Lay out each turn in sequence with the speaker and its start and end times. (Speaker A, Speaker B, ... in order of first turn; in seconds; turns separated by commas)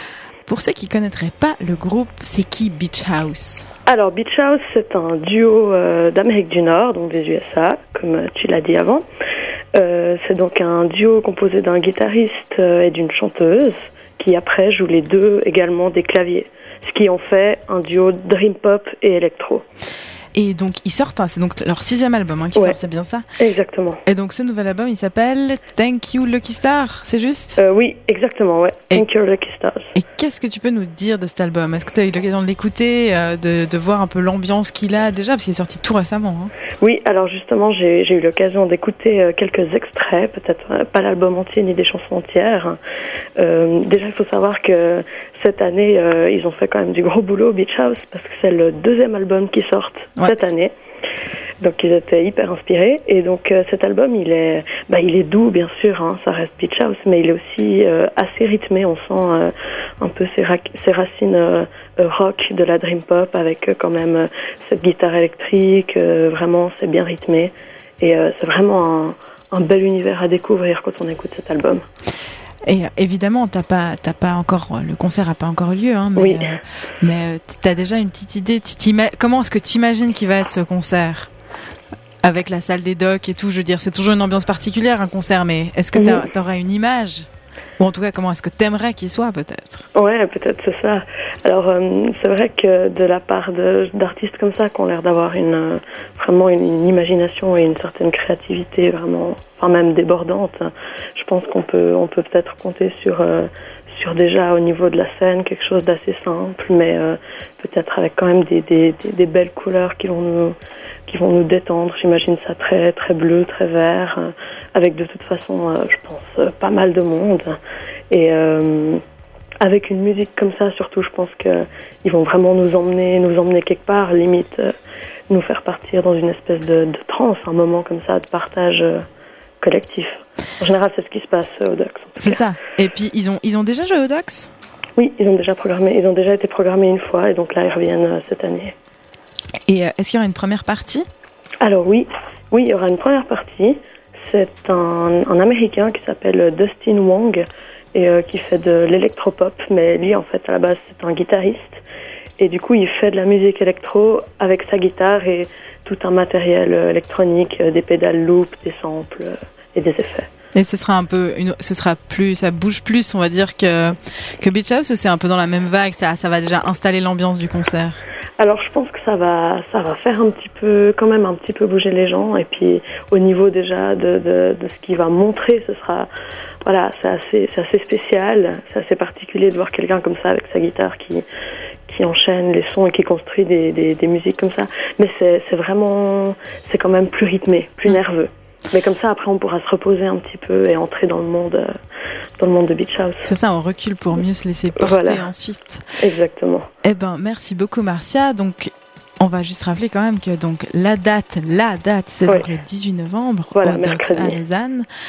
Speaker A: 0.5-3.7, Speaker B: 3.9-9.1, Speaker B: 9.7-19.6, Speaker A: 20.3-23.2, Speaker B: 23.4-24.0, Speaker A: 24.1-27.6, Speaker B: 27.6-29.9, Speaker A: 29.9-36.5, Speaker B: 36.8-42.8, Speaker B: 43.4-50.7, Speaker B: 51.6-71.8, Speaker A: 72.7-81.3, Speaker B: 76.2-76.4, Speaker A: 82.2-87.3, Speaker B: 85.9-86.2, Speaker A: 87.8-89.9, Speaker B: 89.9-119.0, Speaker B: 119.6-124.7, Speaker B: 125.3-129.0, Speaker B: 129.6-132.4, Speaker A: 132.2-134.5, Speaker B: 134.9-138.7, Speaker A: 139.7-141.1, Speaker B: 141.6-151.8, Speaker B: 152.4-160.3, Speaker A: 160.5-168.0, Speaker B: 168.4-176.1, Speaker B: 176.6-181.2, Speaker B: 181.9-191.8, Speaker B: 192.4-193.3, Speaker A: 193.2-195.8, Speaker B: 194.8-195.3, Speaker B: 196.0-196.7, Speaker A: 196.8-204.9, Speaker B: 203.5-204.4